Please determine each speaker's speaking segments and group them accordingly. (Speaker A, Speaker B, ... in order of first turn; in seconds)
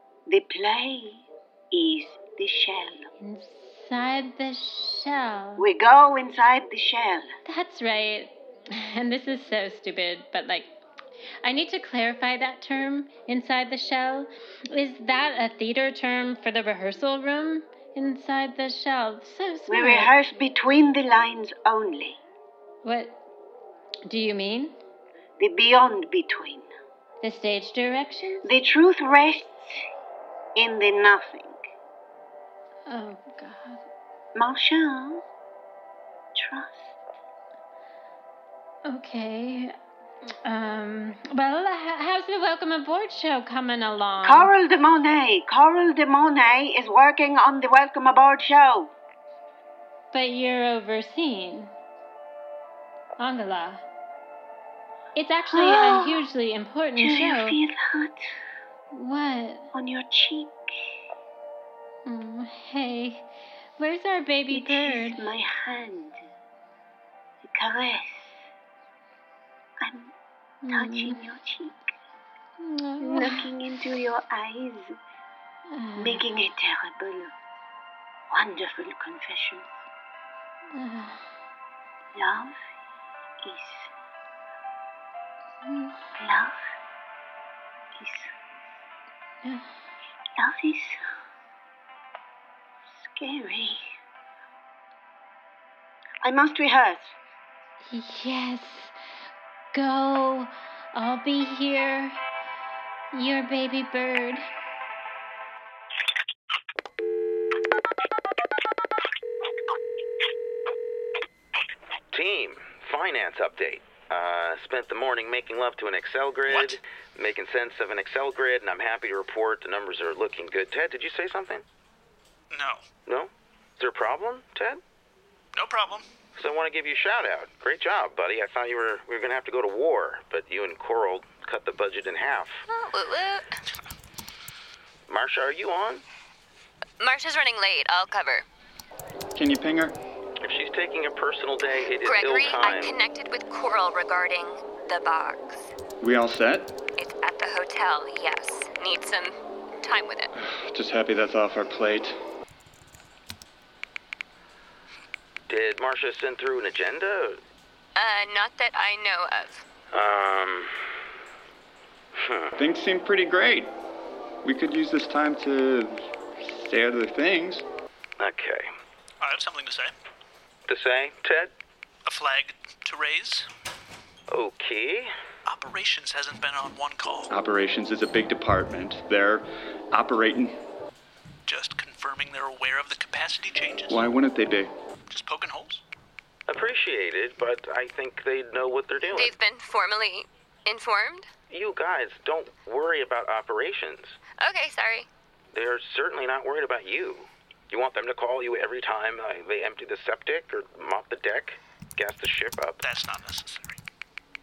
Speaker A: 0.3-3.1, 5.6-7.3, 19.7-22.2, 25.4-26.7, 28.4-29.8, 30.6-31.6, 34.4-35.2, 36.4-37.0, 44.2-48.9, 55.5-56.3, 57.0-58.3, 59.7-60.6, 64.5-66.2, 67.4-68.4, 69.8-70.1, 70.7-71.9, 73.0-75.0, 76.0-77.3, 78.3-79.7, 82.2-82.5, 83.4-83.9, 86.2-86.5, 88.0-88.3, 90.4-91.0, 93.0-93.8, 96.2-97.1
Speaker B: 3.2-5.7, 7.5-10.7, 11.4-20.1, 22.8-23.2, 24.1-24.8, 27.2-28.5, 32.9-33.8, 38.9-39.8, 40.4-44.5, 50.1-51.7, 53.2-53.8, 55.1-57.6, 58.9-59.7, 62.1-63.3, 63.8-65.2, 70.7-71.2, 72.6-73.5, 75.7-76.3, 80.7-81.3, 85.7-86.0, 89.4-89.7, 97.9-98.9, 99.7-102.2, 103.1-104.5
Speaker C: 112.1-121.6, 123.1-124.8, 126.4-132.6, 135.1-136.0, 140.4-142.9, 155.5-157.4, 159.9-160.7, 162.2-162.5, 168.2-168.7, 170.7-171.5, 174.3-175.1, 186.5-189.3, 191.5-194.2, 195.5-202.8
Speaker D: 116.5-116.8, 122.5-122.8, 125.5-126.1, 169.2-169.9, 172.1-173.5, 175.5-177.3, 181.5-184.1, 185.1-185.8, 202.8-203.8
Speaker E: 132.7-133.6, 137.0-138.4, 142.0-145.7, 147.0-150.3, 158.0-159.7, 189.1-191.3, 194.4-195.1
Speaker F: 139.3-140.0, 146.0-146.7, 150.4-152.2, 162.6-163.7, 164.4-167.7, 177.3-180.6, 183.9-184.7